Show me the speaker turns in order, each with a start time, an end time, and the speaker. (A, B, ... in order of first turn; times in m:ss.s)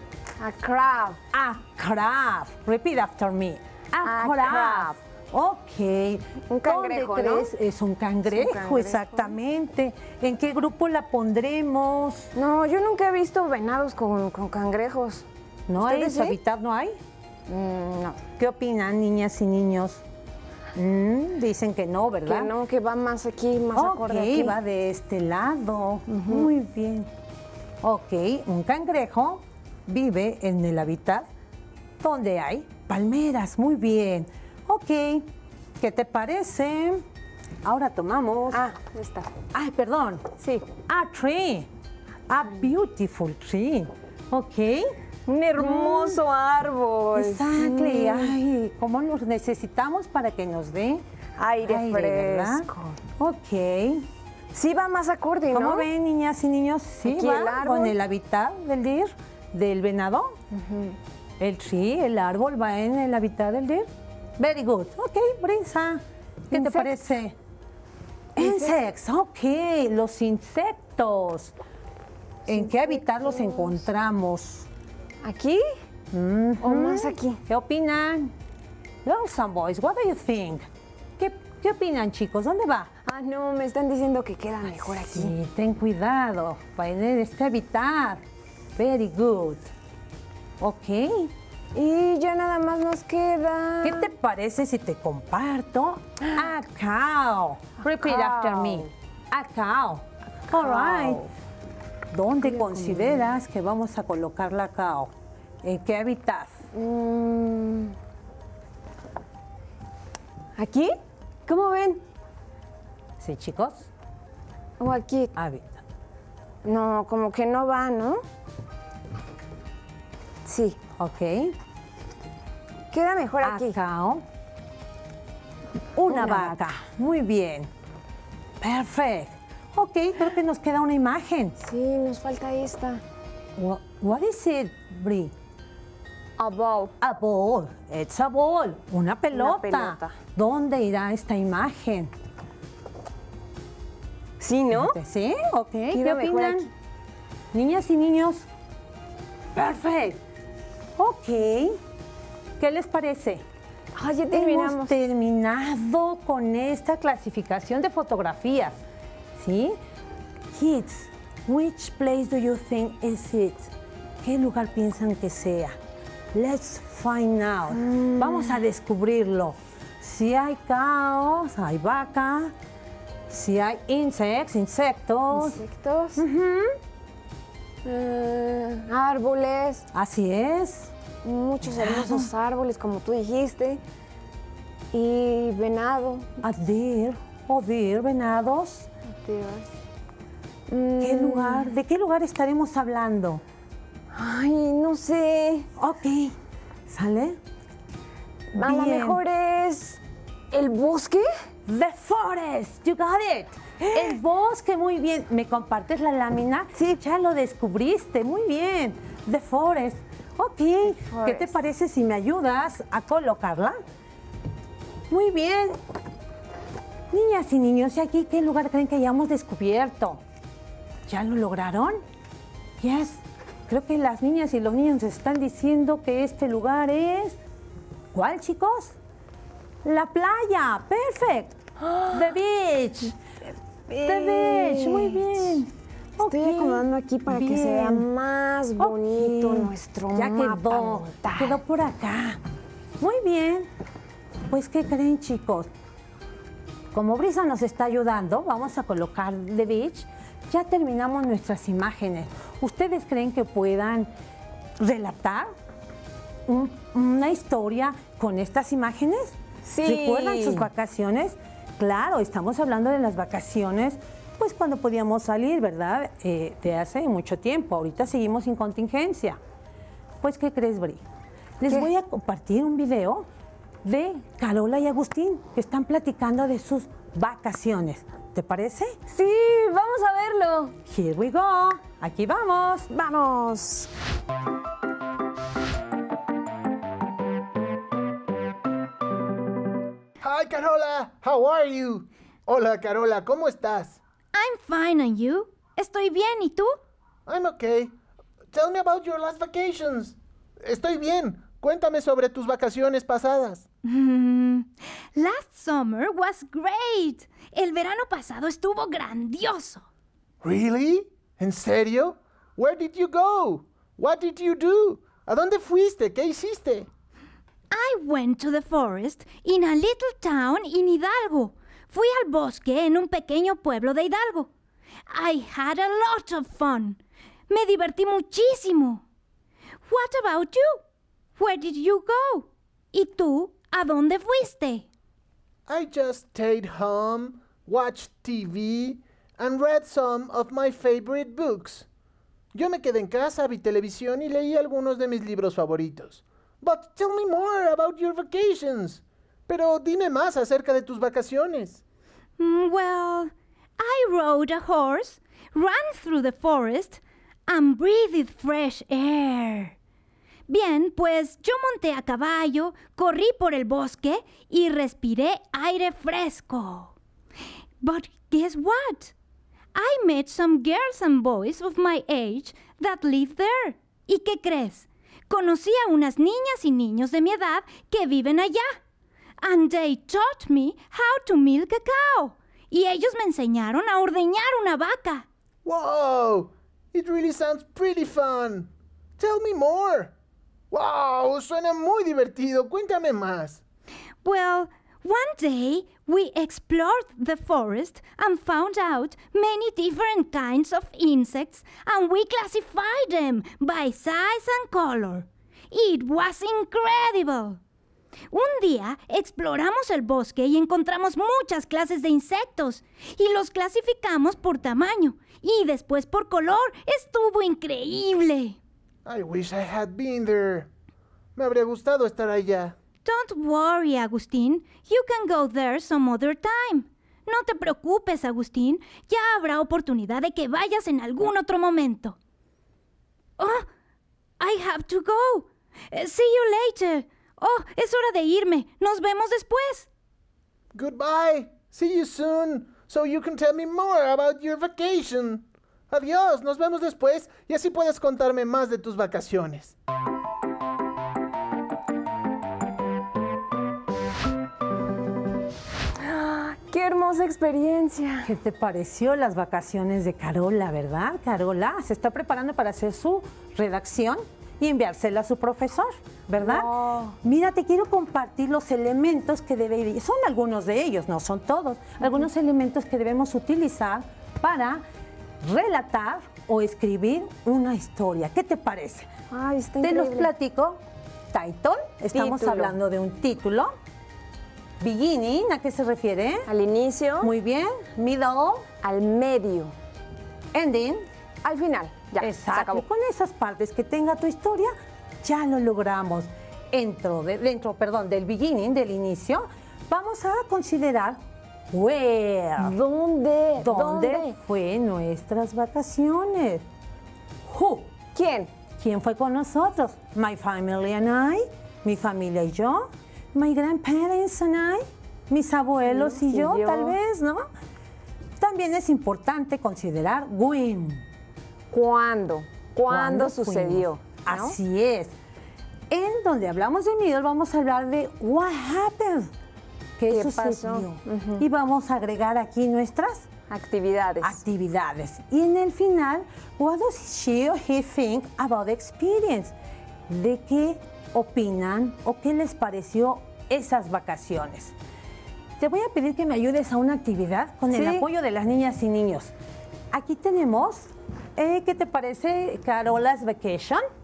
0:00.4-0:01.2 A
0:01.3-0:12.3 B
0:04.0-0:05.0 A
0:06.5-0:07.5 A
0:08.3-0:09.4 A
0:12.4-0:15.2 A
0:15.7-0:17.0 B
0:15.8-0:16.4 A
0:17.5-0:18.2 A
0:18.4-0:20.0 B
0:20.8-0:22.5 B
0:22.2-0:24.6 A
0:23.8-0:27.1 B
0:26.1-0:26.5 A
0:27.8-0:31.3 B
0:32.0-0:37.0 B
0:37.6-0:38.6 B
0:38.5-0:39.4 A
0:39.5-0:41.7 B
0:40.4-0:40.7 A
0:42.3-0:44.9 B
0:45.3-0:48.4 A
0:45.6-0:46.2 B
0:47.2-0:51.0 B
0:51.4-0:53.0 A
0:51.6-0:52.7 B
0:53.2-0:54.1 B
0:54.5-0:55.9 A
0:55.5-1:00.4 B
0:57.0-0:57.9 A
1:00.5-1:01.0 A
1:01.4-1:07.4 B
1:06.5-1:07.0 A
1:08.4-1:08.8 A
1:08.4-1:11.6 B
1:12.5-1:13.8 A
1:12.5-1:14.7 B
1:15.2-1:15.6 A
1:16.1-1:18.3 B
1:16.6-1:17.4 A
1:19.0-1:20.6 B
1:21.2-1:22.9 B
1:23.0-1:25.3 A
1:25.1-1:28.2 B
1:28.8-1:29.7 B
1:30.6-1:31.3 B
1:31.8-1:34.1 A
1:33.8-1:41.2 B
1:37.8-1:38.9 A
1:40.5-1:41.3 A
1:42.1-1:46.6 B
1:42.4-1:43.3 A
1:46.7-1:47.9 A
1:50.6-1:52.0 A
1:53.2-1:53.9 B
1:54.8-1:55.3 A
1:55.4-1:55.8 B
1:56.6-1:58.2 A
2:00.4-2:00.8 A
2:01.0-2:01.6 B
2:02.9-2:03.8 A
2:03.4-2:04.2 B
2:05.9-2:07.7 B
2:06.1-2:06.7 A
2:08.6-2:11.6 B
2:11.6-2:13.0 A
2:13.6-2:15.3 B
2:16.4-2:16.9 A
2:17.0-2:22.1 B
2:19.3-2:20.2 A
2:24.4-2:25.0 A
2:24.7-2:26.7 B
2:25.9-2:26.7 A
2:27.5-2:28.5 B
2:29.5-2:30.2 B
2:31.0-2:31.8 B
2:32.6-2:33.4 B
2:34.0-2:34.9 A
2:34.3-2:38.8 B
2:39.4-2:39.8 B
2:40.5-2:45.8 B
2:46.3-2:52.5 B
2:47.7-2:48.6 A
2:53.3-2:55.6 B
2:55.3-2:56.2 A
2:56.2-2:56.8 B
2:57.8-2:59.9 A
2:59.9-3:00.9 B
3:01.2-3:03.8 A
3:01.6-3:02.3 B
3:04.9-3:06.3 A
3:06.4-3:08.9 B
3:09.0-3:09.7 A
3:10.7-3:11.8 A
3:11.0-3:13.4 B
3:14.1-3:15.7 A
3:15.8-3:17.4 B
3:18.5-3:21.3 A
3:18.6-3:19.2 B
3:21.7-3:33.8 B
3:23.8-3:24.2 A
3:30.9-3:31.6 A
3:35.1-3:35.8 B
3:37.1-3:40.2 B
3:41.1-3:42.0 B
3:42.8-3:47.4 B
3:48.1-3:49.0 B
3:49.8-3:51.6 B
3:51.8-3:52.4 A
3:52.1-3:53.2 B
3:53.9-3:55.4 A
3:54.0-3:58.1 B
3:56.2-4:01.6 A
3:58.8-4:02.4 B
4:03.0-4:03.7 B
4:04.5-4:05.7 B
4:06.9-4:14.1 B
4:14.8-4:15.5 B
4:16.5-4:29.4 B
4:19.7-4:20.7 A
4:30.2-4:31.0 B
4:31.6-4:33.3 B
4:33.8-4:38.9 B
4:39.1-4:40.8 A
4:40.9-4:42.9 B
4:42.9-4:43.9 A
4:50.2-4:54.0 C
4:54.3-4:56.8 D
4:57.3-4:57.9 C
4:58.5-5:03.6 C
5:03.8-5:09.9 D
5:10.4-5:16.9 C
5:17.7-5:24.5 D
5:25.1-5:29.0 D
5:29.9-5:30.8 D
5:31.4-5:34.9 D
5:35.7-5:41.9 C
5:42.5-5:51.8 C
5:52.4-5:59.8 D
6:00.5-6:06.9 D
6:07.8-6:09.1 D
6:09.7-6:18.8 D
6:19.4-6:25.3 D
6:25.6-6:30.1 C
6:30.7-6:33.6 C
6:34.2-6:47.6 D
6:48.3-6:58.6 D
6:59.1-7:00.7 C
7:01.4-7:02.8 C
7:03.0-7:12.2 D
7:13.4-7:13.7 D
7:14.4-7:19.9 D
7:20.7-7:29.8 C
7:36.0-7:38.3 A
7:38.2-7:46.7 B
7:46.4-7:47.2 A
7:47.2-7:54.8 B
7:52.0-7:52.2 A
7:55.4-7:59.1 B
7:59.3-8:00.3 A
7:59.8-8:03.7 B
8:02.1-8:02.8 A
8:04.8-8:06.5 B
8:06.5-8:07.3 A
8:07.2-8:08.7 B
8:08.8-8:09.7 A
8:10.5-8:11.1 B
8:11.4-8:12.8 A
8:12.2-8:22.8 B
8:22.6-8:24.3 A
8:23.6-8:26.6 B
8:27.4-8:27.9 B
8:28.2-8:28.5 A
8:28.8-8:37.5 B
8:35.9-8:37.0 A
8:38.4-8:41.0 B
8:41.7-8:44.6 A
8:42.9-8:45.1 B
8:45.9-8:49.3 B
8:50.0-8:53.3 B
8:50.1-8:51.4 A
8:53.5-8:54.4 A
8:54.2-8:59.5 B
9:00.1-9:04.8 B
9:05.6-9:09.3 B
9:07.7-9:08.1 A
9:09.9-9:13.8 B